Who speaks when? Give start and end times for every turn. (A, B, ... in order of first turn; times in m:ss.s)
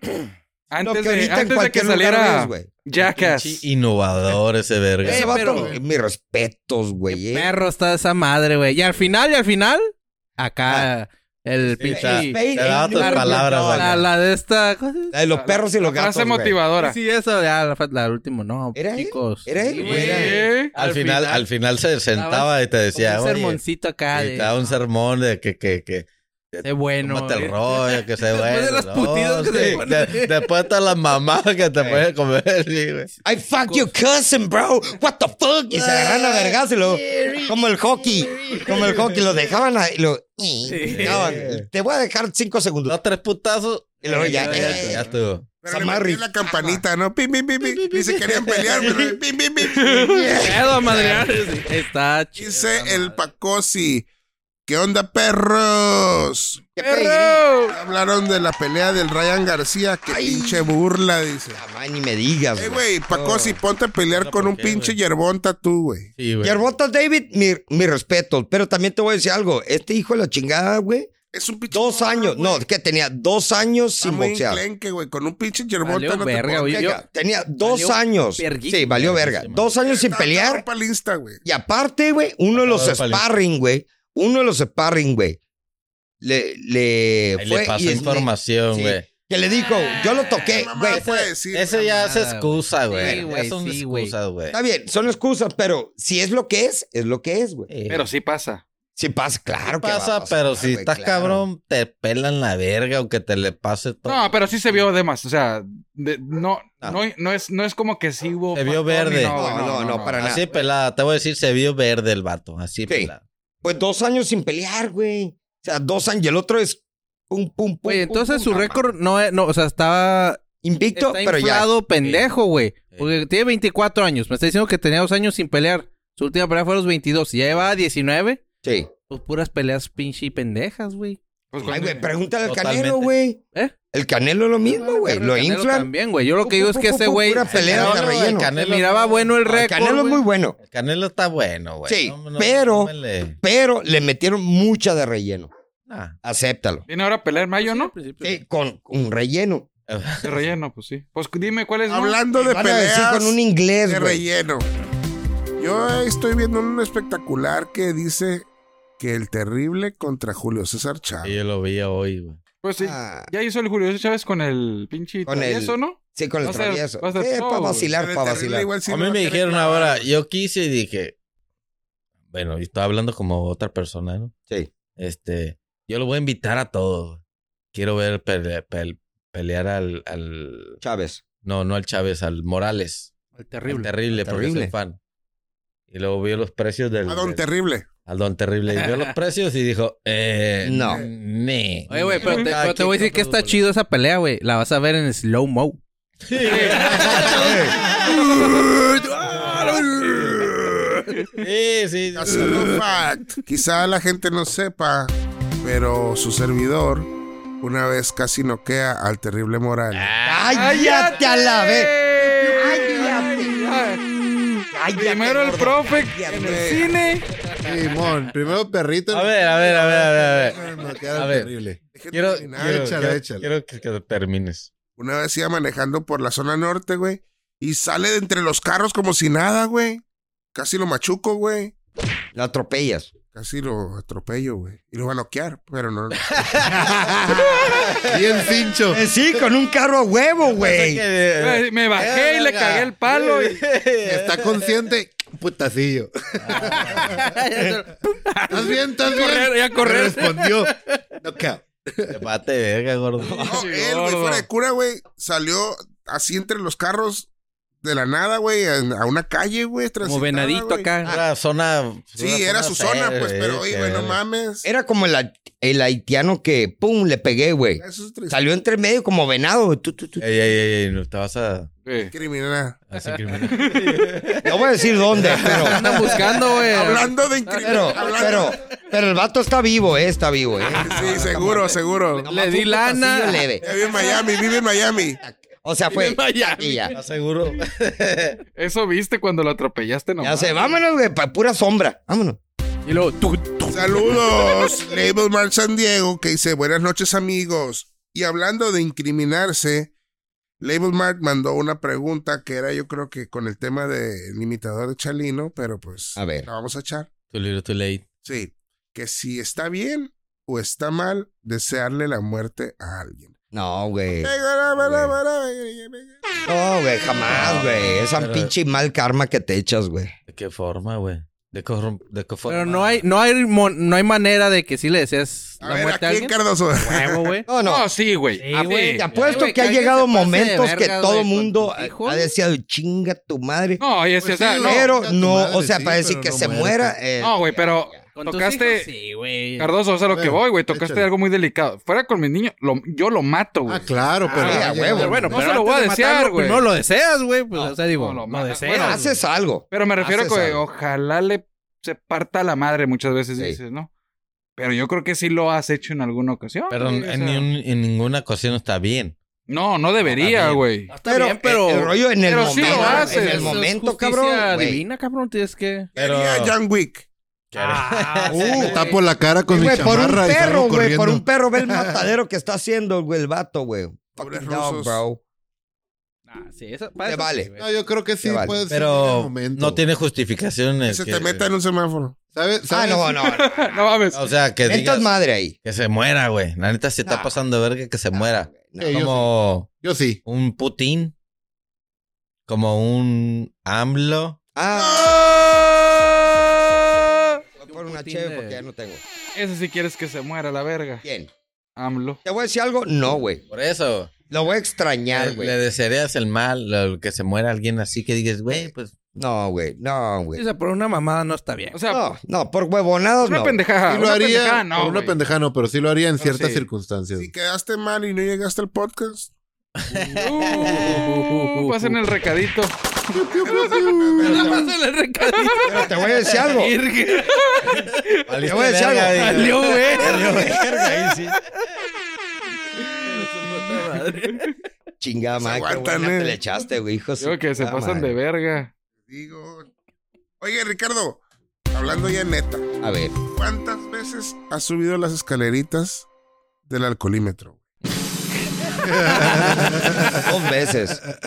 0:00.7-0:03.6 A
0:00.8-0:02.7 B
0:02.9-0:05.5 C
0:05.0-0:07.5 B
0:05.0-0:05.8 D
0:05.3-0:05.8 E
0:07.1-0:15.1 D
0:11.8-0:14.1 C
0:11.8-0:14.0 B
0:15.1-0:16.6 B
0:15.3-0:17.0 A
0:16.8-0:21.5 D
0:18.7-0:20.4 B
0:19.8-0:20.2 C
0:19.8-0:20.7 A
0:20.7-0:23.6 C
0:22.1-0:24.7 D
0:24.1-0:33.1 C
0:26.6-0:30.4 D
0:31.8-0:32.0 B
0:33.2-0:43.0 B
0:33.6-0:33.9 D
0:35.7-0:39.5 C
0:40.6-0:41.3 D
0:40.8-0:41.6 C
0:42.8-0:45.6 C
0:44.0-0:45.0 B
0:44.0-0:45.1 D
0:45.6-0:49.9 F
0:45.6-0:46.3 B
0:47.7-0:48.0 C
0:48.2-0:51.3 B
0:49.8-0:50.4 A
0:50.3-0:53.2 D
0:52.4-0:54.1 F
0:54.6-0:56.6 F
0:56.8-0:57.6 B
0:56.8-0:57.8 A
0:57.6-1:01.6 F
1:00.1-1:00.7 B
1:01.5-1:03.6 B
1:02.6-1:06.1 F
1:04.2-1:05.0 C
1:06.2-1:06.7 C
1:06.4-1:11.1 B
1:11.3-1:12.6 F
1:11.7-1:14.6 B
1:14.0-1:16.8 F
1:15.8-1:17.0 D
1:16.7-1:20.6 B
1:17.6-1:19.0 D
1:18.8-1:19.7 C
1:19.8-1:21.4 F
1:21.4-1:25.4 B
1:22.5-1:23.3 C
1:26.2-1:31.0 B
1:27.4-1:29.1 C
1:30.4-1:32.0 F
1:30.9-1:34.6 C
1:31.8-1:34.1 D
1:33.0-1:33.3 B
1:34.5-1:37.7 B
1:37.7-1:38.1 C
1:37.9-1:38.6 A
1:39.0-1:41.4 B
1:39.6-1:44.9 C
1:44.0-1:50.3 A
1:48.5-1:49.6 C
1:49.3-1:50.4 B
1:50.2-1:53.2 C
1:50.3-1:50.6 D
1:53.6-1:58.8 B
1:57.8-2:00.4 D
2:00.6-2:01.7 B
2:00.9-2:08.4 D
2:02.0-2:02.3 C
2:02.9-2:03.2 C
2:08.6-2:08.9 B
2:09.1-2:11.2 D
2:11.5-2:12.1 A
2:11.6-2:13.4 B
2:12.4-2:13.1 C
2:13.9-2:15.9 B
2:14.7-2:20.2 D
2:16.4-2:18.5 B
2:17.4-2:19.3 C
2:19.4-2:20.6 B
2:20.6-2:23.4 C
2:21.9-2:25.5 B
2:25.9-2:26.2 C
2:26.2-2:26.8 B
2:26.9-2:27.9 A
2:27.6-2:28.4 D
2:28.2-2:29.7 B
2:29.9-2:30.4 C
2:30.2-2:32.2 A
2:31.9-2:34.7 F
2:32.4-2:34.2 B
2:35.6-2:38.5 F
2:39.0-2:41.4 F
2:41.2-2:42.4 C
2:42.6-2:47.9 A
2:42.8-2:43.3 B
2:45.2-2:48.8 B
2:47.9-2:50.1 F
2:48.8-2:51.1 C
2:52.3-2:54.3 C
2:54.9-2:57.2 C
2:57.7-3:00.8 C
3:00.8-3:01.2 B
3:01.4-3:03.1 C
3:03.4-3:03.9 D
3:03.6-3:05.0 C
3:04.2-3:04.7 B
3:05.9-3:07.4 C
3:07.0-3:07.9 F
3:08.0-3:13.6 C
3:08.7-3:09.1 D
3:10.6-3:11.0 B
3:11.9-3:15.8 D
3:12.2-3:12.5 A
3:16.2-3:22.8 C
3:16.4-3:17.4 A
3:16.4-3:18.4 D
3:17.2-3:17.8 B
3:19.2-3:20.1 D
3:22.1-3:27.1 F
3:27.6-3:30.1 F
3:29.9-3:30.7 C
3:30.2-3:33.9 B
3:30.5-3:37.3 A
3:34.7-3:36.8 B
3:36.3-3:36.9 F
3:37.6-3:41.8 E
3:39.1-3:40.6 C
3:41.1-3:41.5 C
3:41.9-3:43.0 F
3:42.1-3:44.7 C
3:42.5-3:43.5 E
3:45.0-3:50.0 F
3:50.5-3:51.7 F
3:52.3-3:53.1 B
3:53.3-3:56.2 F
3:56.2-3:56.9 C
3:56.7-3:59.0 E
3:57.5-3:58.3 C
3:58.9-4:01.0 B
4:00.4-4:04.7 C
4:01.4-4:03.6 A
4:04.0-4:07.3 E
4:06.4-4:07.1 C
4:06.6-4:10.7 D
4:08.5-4:12.2 E
4:12.1-4:13.5 C
4:13.2-4:13.6 B
4:13.4-4:17.3 F
4:13.5-4:14.4 A
4:17.8-4:21.0 F
4:20.0-4:21.1 D
4:21.0-4:24.2 C
4:22.2-4:24.7 F
4:24.6-4:30.2 B
4:27.8-4:28.4 F
4:30.2-4:31.7 C
4:31.8-4:32.1 A
4:32.1-4:32.8 F
4:32.9-4:36.0 C
4:33.4-4:34.0 A
4:34.4-4:35.8 B
4:35.4-4:38.5 D
4:36.6-4:38.6 F
4:37.6-4:43.6 B
4:40.7-4:41.1 D
4:40.7-4:42.3 F
4:42.2-4:44.2 D
4:43.6-4:45.2 F
4:45.2-4:46.9 B
4:45.9-4:47.0 D
4:46.9-4:48.4 C
4:48.6-4:50.7 A
4:50.2-4:52.4 B
4:52.8-4:54.4 D
4:53.7-4:59.9 F
5:00.6-5:07.1 F
5:06.2-5:06.5 B
5:07.3-5:08.0 C
5:08.2-5:13.3 F
5:13.5-5:15.1 B
5:14.2-5:16.2 F
5:16.5-5:20.1 B
5:17.2-5:18.5 C
5:20.3-5:23.0 C
5:22.5-5:27.4 D
5:25.6-5:27.4 F
5:27.5-5:27.8 B
5:27.6-5:29.0 A
5:28.4-5:32.3 D
5:28.5-5:33.8 B
5:29.1-5:29.4 C
5:33.8-5:34.9 A
5:34.2-5:37.0 E
5:34.6-5:38.0 B
5:37.2-5:38.9 A
5:38.2-5:39.7 D
5:39.6-5:43.9 A
5:40.1-5:41.1 E
5:43.7-5:45.4 E
5:44.2-5:49.1 D
5:44.3-5:45.3 B
5:45.3-5:46.6 A
5:47.6-5:49.0 A
5:48.7-5:50.6 B
5:49.7-5:53.9 A
5:54.6-5:57.4 A
5:56.7-5:59.1 C
5:59.5-6:00.9 A
6:00.0-6:00.6 C
6:00.9-6:05.9 D
6:01.0-6:04.8 B
6:02.2-6:03.6 A
6:02.8-6:03.5 C
6:06.0-6:07.1 F
6:06.0-6:06.5 C
6:07.5-6:08.8 C
6:07.5-6:09.0 D
6:08.3-6:08.8 B
6:08.5-6:12.1 E
6:09.5-6:15.2 B
6:14.2-6:15.0 F
6:16.3-6:17.8 D
6:17.0-6:17.5 B
6:17.6-6:19.8 E
6:18.2-6:18.6 B
6:18.7-6:21.5 C
6:20.8-6:22.2 F
6:22.3-6:23.2 E
6:22.7-6:23.9 B
6:23.2-6:24.3 A
6:24.1-6:25.1 C
6:24.6-6:25.6 B
6:25.6-6:31.1 C
6:27.0-6:27.4 B
6:28.1-6:29.2 B
6:28.8-6:29.2 E
6:29.8-6:30.2 E
6:32.5-6:34.4 C
6:34.6-6:35.6 B
6:34.8-6:35.3 F
6:37.0-6:38.6 D
6:37.6-6:39.0 B
6:39.3-6:41.0 A
6:41.0-6:41.3 B
6:41.8-6:42.2 A
6:42.2-6:43.4 B
6:43.5-6:44.1 C
6:44.3-6:45.6 B
6:45.1-6:48.9 C
6:48.5-6:50.4 B
6:50.3-6:51.8 D
6:51.7-6:52.1 A
6:51.9-6:53.6 B
6:53.2-6:55.2 A
6:53.9-6:57.3 E
6:57.1-6:59.3 F
6:59.8-7:01.0 C
6:59.9-7:02.0 D
7:00.2-7:02.7 A
7:03.1-7:04.4 E
7:03.3-7:04.7 F
7:04.2-7:08.3 D
7:05.6-7:06.7 B
7:08.3-7:11.3 C
7:08.4-7:11.3 B
7:09.1-7:10.9 D
7:13.0-7:14.5 D
7:15.0-7:18.1 B
7:15.4-7:16.4 F
7:17.2-7:18.7 A
7:19.1-7:19.7 F
7:20.4-7:22.7 F
7:22.8-7:23.2 B
7:23.3-7:26.1 F
7:26.7-7:27.6 F
7:28.8-7:30.2 E
7:29.0-7:29.6 D
7:29.7-7:31.0 B